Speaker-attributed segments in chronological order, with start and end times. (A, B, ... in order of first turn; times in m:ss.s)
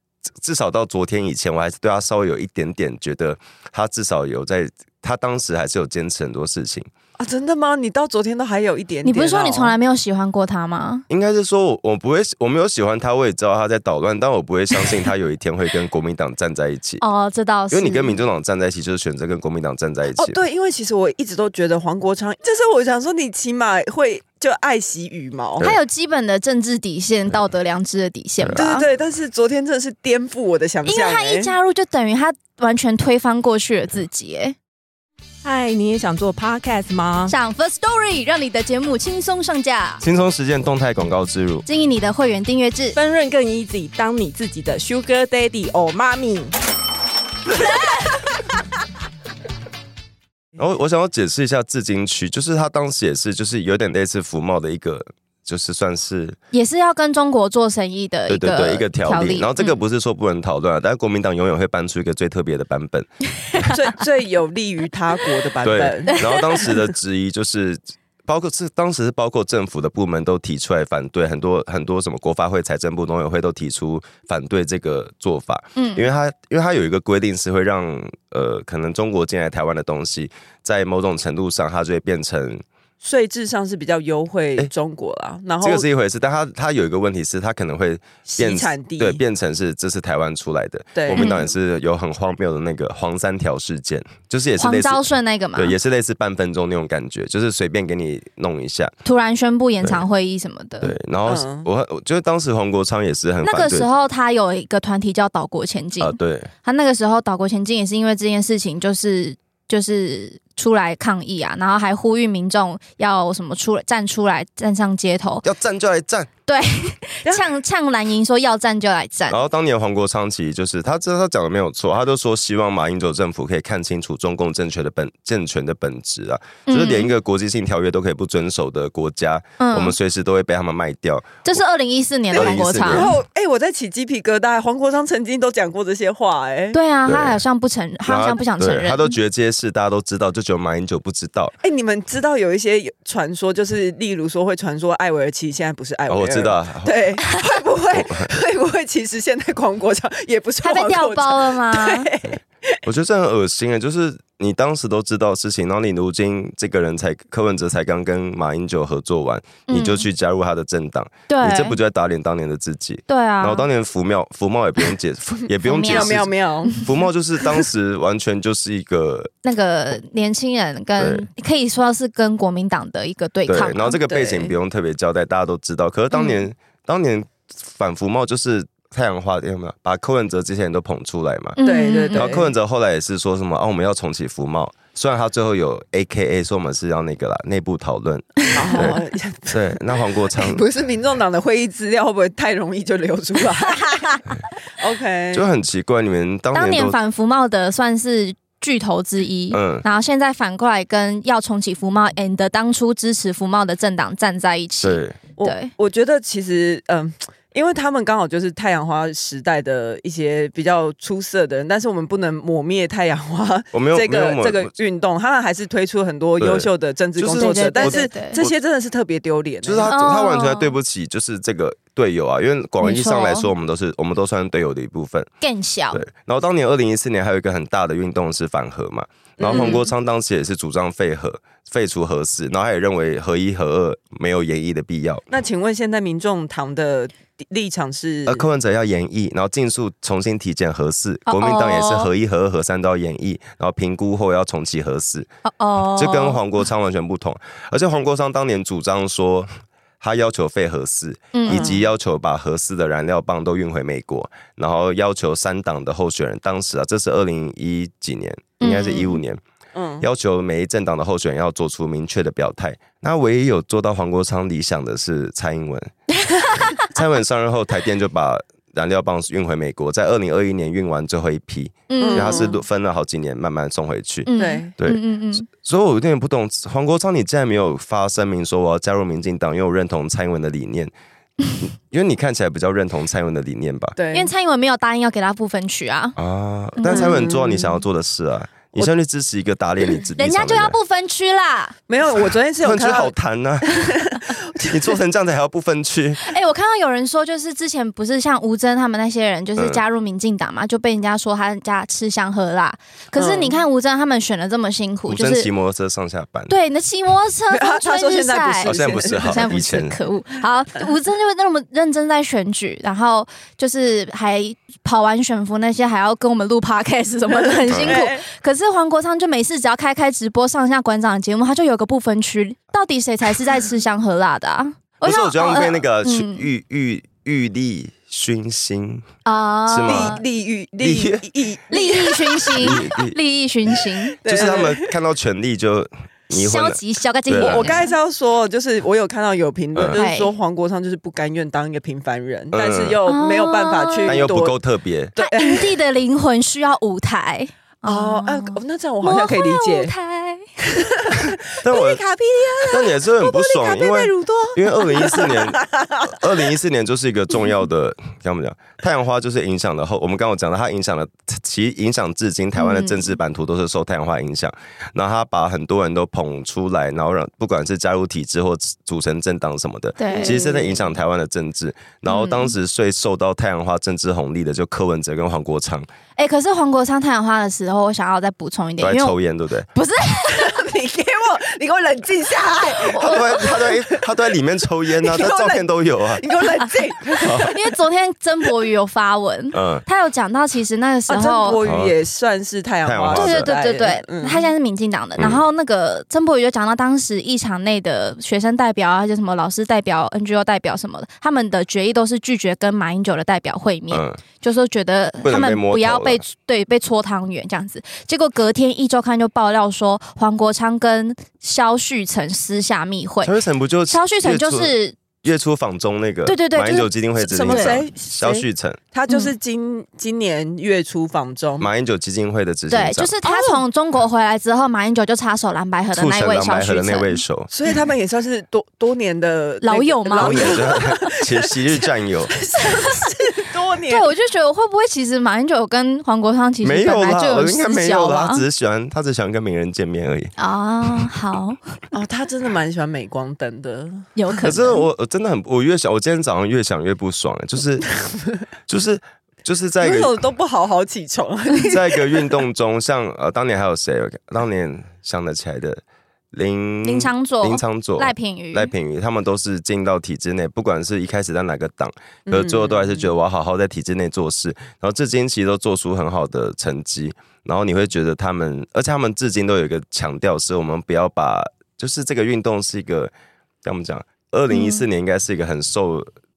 0:00.4-0:06.9 A
0:07.2-0:09.7 B
0:09.0-0:11.0 C
0:11.1-0:17.0 A
0:17.0-0:18.2 C
0:17.7-0:20.4 A
0:20.1-0:25.6 B
0:25.6-0:28.8 C
0:28.4-0:28.6 A
0:28.5-0:31.5 B
0:30.8-0:34.6 C
0:35.4-0:37.3 D
0:37.3-0:40.0 C
0:40.0-0:41.6 A
0:41.6-0:43.0 C
0:42.9-0:46.5 D
0:50.6-0:56.4 A
0:56.5-0:59.8 C
0:58.3-1:03.7 A
1:03.7-1:06.2 B
1:05.6-1:22.6 A
1:06.1-1:06.7 C
1:15.8-1:16.1 C
1:23.0-1:25.8 B
1:25.6-1:38.9 A
1:28.3-1:29.2 B
1:30.9-1:31.4 B
1:31.1-1:31.4 C
1:34.6-1:35.7 C
1:39.0-1:40.9 C
1:40.8-1:43.9 A
1:41.2-1:41.7 B
1:43.4-1:55.4 C
1:46.0-1:46.5 A
1:55.4-1:56.3 A
1:56.5-1:59.4 C
1:59.3-2:11.4 A
2:06.7-2:07.1 C
2:09.6-2:09.9 C
2:11.4-2:13.1 C
2:12.3-2:13.1 A
2:12.3-2:16.8 B
2:16.7-2:19.2 C
2:17.1-2:17.4 A
2:18.0-2:21.5 A
2:21.6-2:32.8 B
2:26.1-2:26.9 A
2:27.9-2:28.3 A
2:30.6-2:32.1 C
2:32.8-2:49.3 A
2:39.7-2:40.0 C
2:41.3-2:41.8 C
2:43.1-2:43.7 C
2:45.6-2:46.1 C
2:45.8-2:46.9 B
2:49.4-2:54.0 C
2:51.0-2:51.2 A
2:53.5-3:01.6 A
2:54.1-2:54.5 B
2:56.1-2:56.4 C
3:01.6-3:02.3 C
3:01.6-3:02.5 B
3:02.1-3:10.6 A
3:08.5-3:09.8 B
3:10.3-3:14.2 B
3:14.8-3:15.5 B
3:15.3-3:17.0 A
3:16.5-3:25.7 C
3:19.5-3:19.8 A
3:24.8-3:25.2 A
3:25.4-3:39.9 B
3:33.7-3:34.7 A
3:36.4-3:38.6 A
3:37.3-3:38.4 C
3:39.6-3:45.3 A
3:39.8-3:40.7 C
3:42.8-3:43.5 C
3:45.4-3:46.0 C
3:45.9-3:55.2 A
3:49.4-3:49.9 B
3:49.5-3:49.8 C
3:55.3-3:58.4 B
3:58.3-4:05.3 A
4:01.3-4:02.1 C
4:05.4-4:06.4 C
4:05.9-4:09.5 A
4:10.0-4:19.4 A
4:11.3-4:11.7 C
4:11.5-4:11.8 B
4:18.6-4:19.2 C
4:19.7-4:20.0 B
4:20.0-4:25.9 A
4:26.3-4:26.7 C
4:26.6-4:40.9 A
4:31.9-4:32.5 C
4:32.0-4:32.5 B
4:34.2-4:35.4 C
4:34.4-4:34.7 B
4:41.6-4:44.0 A
4:44.0-4:44.3 B
4:44.1-4:46.2 C
4:46.2-4:50.8 A
4:46.8-4:47.3 C
4:46.9-4:47.7 B
4:50.2-4:51.7 C
4:51.9-4:55.0 B
4:52.1-4:54.1 A
4:54.7-4:56.2 A
4:56.2-5:05.5 C
4:59.6-4:59.8 A
5:03.1-5:03.6 B
5:05.1-5:06.5 A
5:06.5-5:26.5 C
5:07.5-5:09.5 B
5:08.6-5:09.9 A
5:17.6-5:18.2 B
5:17.7-5:18.0 A
5:25.0-5:29.0 A
5:29.2-5:30.2 C
5:29.7-5:30.2 A
5:29.8-5:32.8 B
5:30.8-5:31.2 A
5:31.7-5:34.2 C
5:32.6-5:33.2 A
5:34.2-5:34.9 B
5:34.2-5:37.8 A
5:36.3-5:37.9 C
5:37.4-5:44.6 B
5:39.9-5:40.3 C
5:42.5-5:43.0 A
5:43.0-5:44.2 C
5:44.1-5:45.1 A
5:45.2-5:45.7 B
5:45.2-5:50.5 C
5:47.8-5:49.9 B
5:50.6-5:56.2 B
5:51.6-5:52.0 A
5:52.7-6:15.9 A
6:02.6-6:03.1 C
6:10.0-6:10.4 C
6:10.1-6:10.8 B
6:12.1-6:12.5 C
6:16.2-6:19.2 C
6:18.8-6:19.7 A
6:19.7-6:20.6 C
6:20.3-6:24.1 B
6:22.9-6:26.2 A
6:24.9-6:27.6 B
6:27.2-6:27.5 A
6:27.4-6:31.6 C
6:29.5-6:29.8 A
6:31.1-6:34.5 B
6:31.6-6:31.9 A
6:32.8-6:33.5 A
6:33.1-6:53.3 C
6:43.9-6:44.2 A
6:45.2-6:46.2 A
6:53.2-6:58.8 A
6:53.9-6:55.0 C
6:56.2-6:57.8 C
6:57.2-7:01.7 B
7:01.6-7:03.1 A
7:02.7-7:07.2 C
7:03.2-7:03.6 B
7:05.9-7:07.5 A
7:07.5-7:14.0 B
7:09.6-7:10.6 C
7:10.1-7:12.3 A
7:12.6-7:13.1 C
7:13.9-7:18.4 C
7:16.6-7:20.3 A
7:20.4-7:21.6 C
7:21.9-7:24.1 B
7:24.2-7:24.8 C
7:24.4-7:27.9 A
7:28.7-7:30.2 A
7:29.8-7:32.4 B
7:31.7-7:35.8 A
7:36.3-7:53.1 A
7:36.8-7:38.7 C
7:42.3-7:43.1 B
7:53.6-7:56.1 A
7:54.5-7:54.8 C